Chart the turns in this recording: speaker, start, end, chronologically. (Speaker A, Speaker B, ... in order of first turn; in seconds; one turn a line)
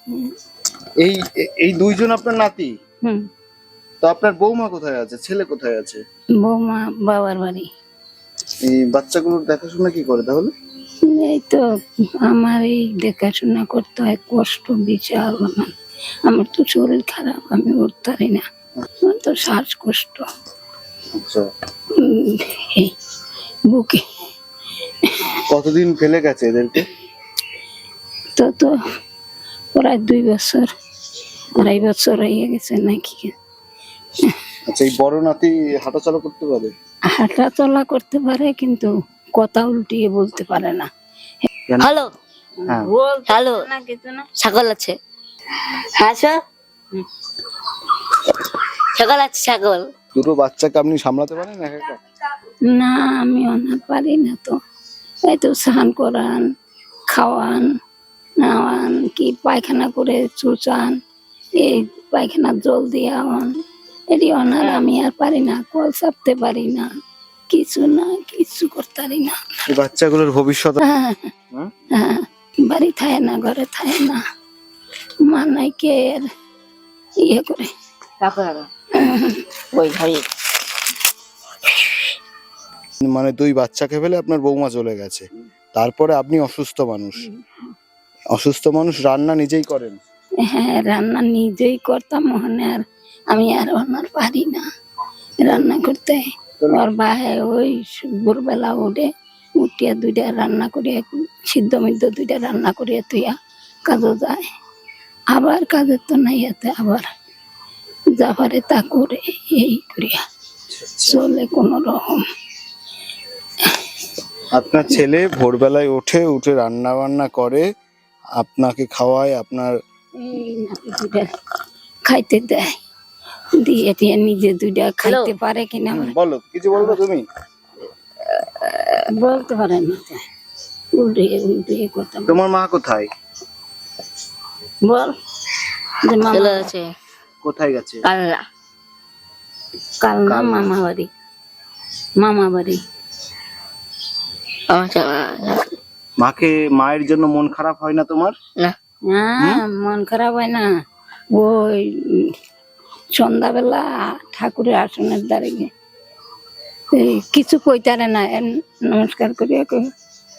Speaker A: 1.0-2.7
Speaker A: 4.0-6.0
Speaker B: 6.4-7.7
Speaker A: 8.7-10.5
Speaker B: 11.1-11.6
Speaker B: 12.2-15.7
Speaker B: 16.3-18.4
Speaker B: 19.1-20.3
Speaker A: 21.1-21.5
Speaker B: 22.0-22.9
Speaker B: 23.7-24.0
Speaker A: 25.5-26.9
Speaker B: 28.4-28.7
Speaker B: 29.8-30.7
Speaker B: 31.6-33.3
Speaker A: 34.7-36.7
Speaker B: 37.1-40.9
Speaker A: 41.7-42.0
Speaker C: 41.8-42.1
Speaker B: 42.6-44.3
Speaker C: 43.3-43.6
Speaker C: 44.4-45.0
Speaker C: 46.0-46.4
Speaker C: 48.9-49.9
Speaker A: 50.1-52.0
Speaker B: 52.7-54.6
Speaker B: 55.3-56.4
Speaker B: 57.1-57.7
Speaker B: 58.4-61.0
Speaker B: 61.6-63.5
Speaker B: 64.1-66.9
Speaker B: 67.5-69.4
Speaker A: 69.7-70.8
Speaker B: 70.9-71.3
Speaker B: 72.0-74.2
Speaker B: 75.3-76.2
Speaker B: 77.3-77.7
Speaker C: 78.2-78.7
Speaker B: 79.0-79.4
Speaker C: 79.7-80.3
Speaker A: 83.0-87.3
Speaker A: 88.3-90.0
Speaker B: 90.5-94.6
Speaker B: 95.4-99.1
Speaker B: 99.6-103.3
Speaker B: 103.9-104.4
Speaker B: 105.3-107.1
Speaker B: 108.2-110.2
Speaker A: 110.7-111.2
Speaker B: 111.1-112.2
Speaker A: 114.5-117.7
Speaker A: 118.4-119.7
Speaker B: 120.2-121.3
Speaker B: 122.1-122.8
Speaker B: 123.6-126.1
Speaker C: 125.0-125.3
Speaker A: 125.9-127.2
Speaker B: 129.2-130.2
Speaker B: 131.0-132.4
Speaker A: 132.3-133.1
Speaker B: 134.9-135.1
Speaker B: 136.1-136.7
Speaker C: 136.3-136.9
Speaker A: 137.4-138.0
Speaker C: 138.1-138.4
Speaker B: 140.0-141.1
Speaker A: 140.3-140.7
Speaker B: 142.2-142.8
Speaker C: 144.7-145.7
Speaker A: 146.2-148.3
Speaker B: 149.1-150.7
Speaker B: 151.4-152.3
Speaker B: 153.2-155.7
Speaker B: 156.9-159.9